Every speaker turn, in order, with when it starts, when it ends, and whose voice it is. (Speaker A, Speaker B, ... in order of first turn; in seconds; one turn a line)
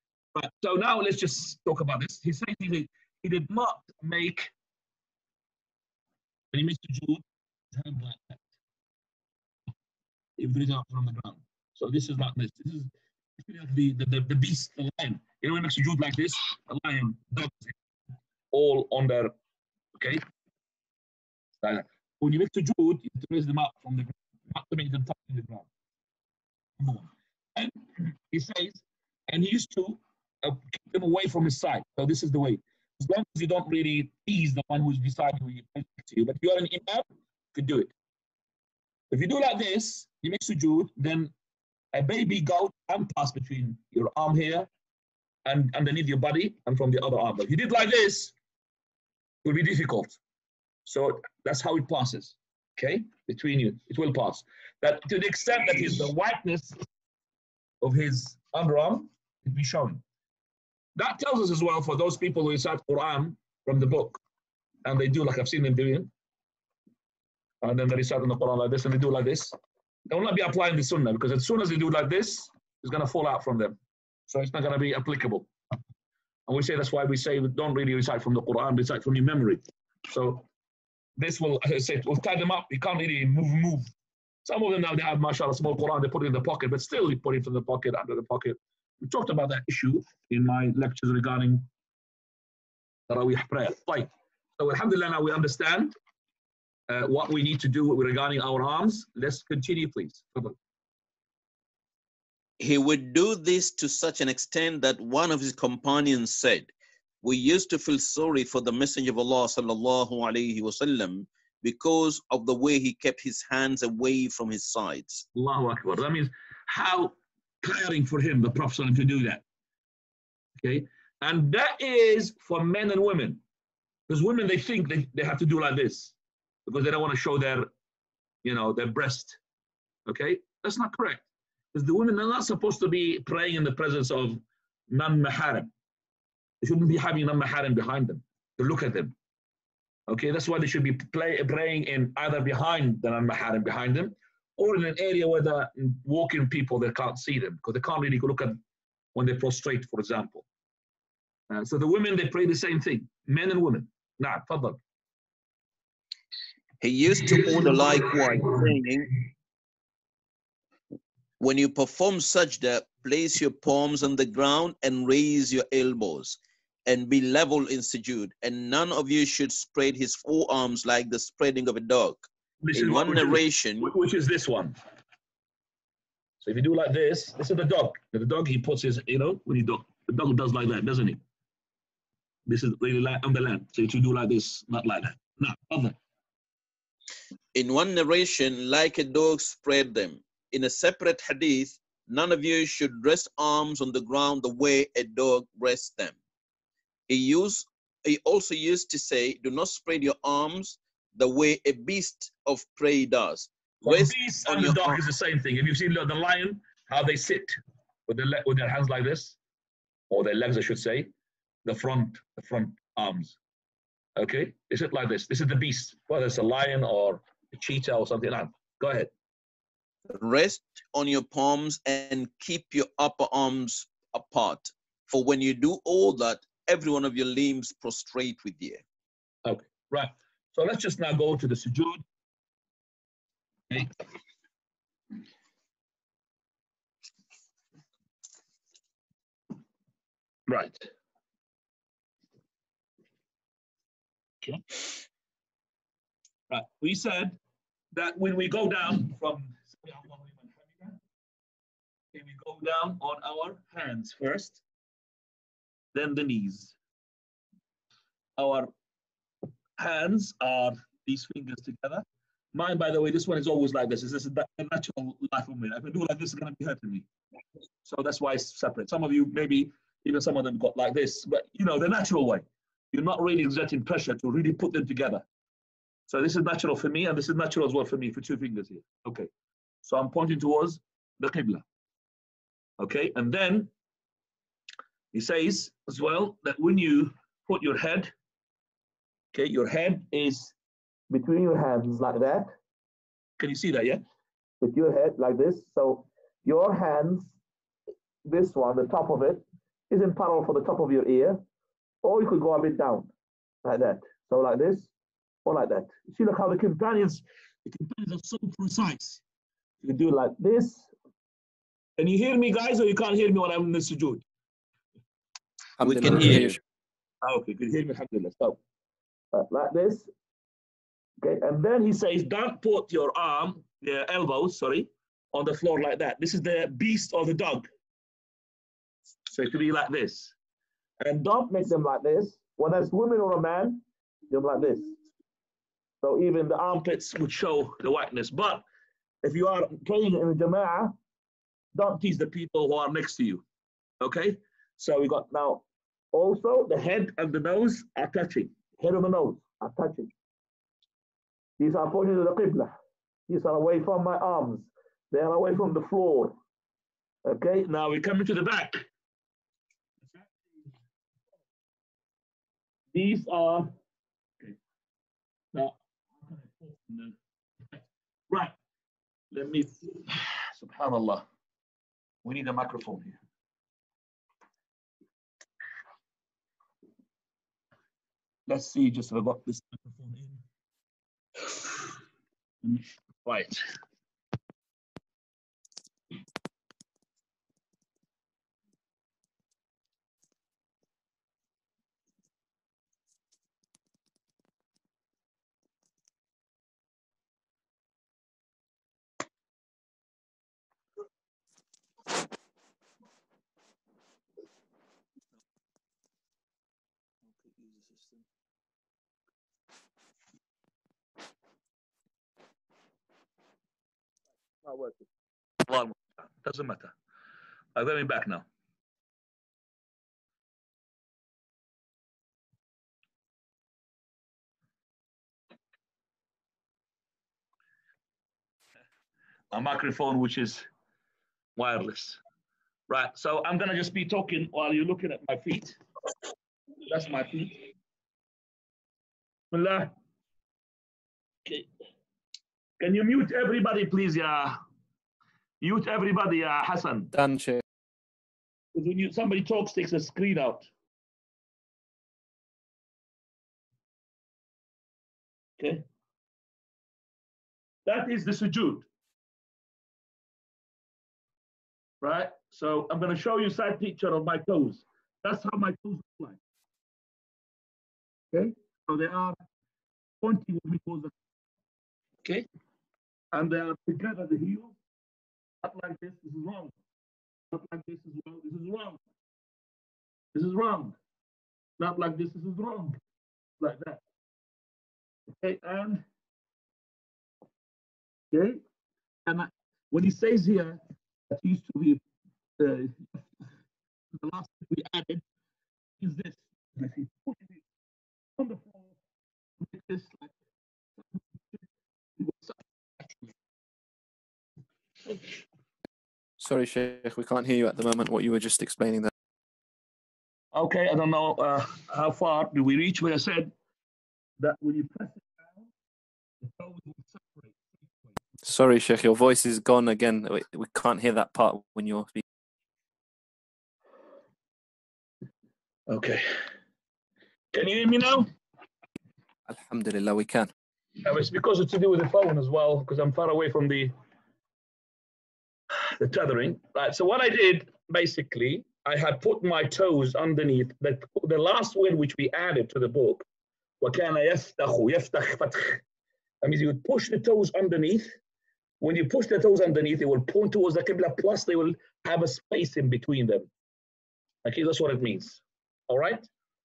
Speaker A: 0.3-4.5
Speaker A: 6.5-7.2
Speaker A: 7.7-8.4
Speaker A: 10.4-17.7
Speaker A: 18.5-19.3
Speaker A: 20.0-20.2
Speaker A: 21.6-25.7
Speaker A: 26.8-37.9
Speaker A: 39.1-41.3
Speaker A: 41.9-44.7
Speaker A: 45.5-48.3
Speaker A: 49.4-50.2
Speaker A: 50.9-56.8
Speaker A: 57.8-60.0
Speaker A: 61.0-64.2
Speaker A: 64.8-66.1
Speaker A: 67.6-69.5
Speaker A: 70.1-73.8
Speaker A: 74.3-75.5
Speaker A: 76.5-80.5
Speaker A: 81.2-83.9
Speaker A: 84.5-91.7
Speaker A: 93.1-96.0
Speaker A: 96.9-100.5
Speaker B: 102.6-115.2
Speaker A: 115.3-119.4
Speaker A: 120.6-123.4
Speaker A: 124.1-126.1
Speaker A: 126.7-127.7
Speaker A: 128.4-129.4
Speaker A: 130.1-135.7
Speaker A: 136.6-139.2
Speaker A: 140.1-148.6
Speaker A: 149.2-150.4
Speaker A: 151.5-154.8
Speaker B: 156.8-159.2
Speaker B: 161.4-173.9
Speaker A: 172.6-174.8
Speaker A: 176.4-181.2
Speaker A: 182.5-186.0
Speaker B: 187.5-196.2
Speaker B: 197.1-205.0
Speaker A: 203.8-207.6
Speaker A: 208.1-209.4
Speaker A: 210.1-211.1
Speaker A: 211.7-213.4
Speaker A: 214.2-219.1
Speaker B: 220.1-228.8
Speaker A: 229.4-232.0
Speaker A: 233.7-234.0
Speaker A: 240.5-240.9
Speaker A: 244.4-245.0
Speaker A: 246.5-247.4
Speaker A: 247.9-251.0
Speaker A: 252.1-254.6
Speaker A: 255.9-256.8
Speaker A: 258.4-258.7
Speaker A: 259.8-267.1
Speaker A: 267.9-275.2
Speaker A: 276.1-279.3
Speaker A: 279.8-281.6
Speaker A: 282.8-283.7
Speaker A: 285.1-288.1
Speaker A: 289.3-290.5
Speaker A: 291.1-292.5
Speaker A: 293.4-294.0
Speaker A: 294.6-297.3
Speaker A: 298.2-301.4
Speaker A: 302.0-303.1
Speaker A: 303.6-304.9
Speaker A: 305.4-309.2
Speaker A: 309.8-310.9
Speaker A: 312.0-314.2
Speaker C: 315.8-316.6
Speaker B: 315.8-316.6
Speaker A: 317.2-318.6
Speaker A: 319.3-320.1
Speaker A: 321.2-327.7
Speaker A: 329.3-330.3
Speaker A: 331.0-335.0
Speaker A: 336.0-338.6
Speaker A: 339.2-340.9
Speaker A: 341.8-343.4
Speaker A: 344.0-350.1
Speaker A: 351.6-352.8
Speaker A: 353.3-356.4
Speaker A: 357.2-358.9
Speaker A: 360.1-360.7
Speaker A: 362.9-363.7
Speaker A: 365.5-367.1
Speaker A: 367.7-368.6
Speaker A: 369.3-371.2
Speaker A: 372.2-373.2
Speaker A: 378.5-380.4
Speaker A: 382.6-383.7
Speaker A: 407.4-408.2
Speaker A: 414.6-415.0
Speaker A: 415.6-416.9
Speaker A: 417.8-418.5
Speaker A: 429.5-430.6
Speaker A: 431.6-432.2
Speaker A: 432.9-435.8
Speaker A: 436.9-437.6
Speaker A: 439.5-439.9
Speaker A: 442.8-444.6
Speaker A: 445.6-447.1
Speaker C: 447.1-447.6
Speaker A: 448.7-450.7
Speaker A: 455.6-455.8
Speaker A: 457.9-458.9
Speaker A: 462.0-466.4
Speaker A: 468.3-469.4
Speaker A: 470.2-471.1
Speaker A: 473.3-474.7
Speaker A: 475.6-476.8
Speaker A: 477.5-479.0
Speaker A: 480.3-481.0
Speaker A: 481.8-483.0
Speaker A: 483.6-484.0
Speaker A: 485.4-486.0
Speaker A: 488.3-488.6
Speaker A: 489.3-492.0
Speaker A: 492.6-493.2
Speaker A: 494.2-495.2
Speaker A: 496.0-497.6
Speaker A: 498.4-498.9
Speaker A: 499.6-500.3
Speaker A: 502.2-502.6
Speaker C: 506.4-509.1
Speaker A: 510.5-513.5
Speaker A: 514.4-515.7
Speaker A: 516.6-517.6
Speaker C: 518.4-522.2
Speaker A: 525.9-526.4
Speaker A: 527.5-528.3
Speaker C: 529.5-530.5
Speaker A: 531.0-533.9
Speaker A: 535.8-543.2
Speaker A: 543.8-545.8
Speaker A: 546.4-548.1
Speaker A: 548.8-553.5
Speaker A: 554.5-556.3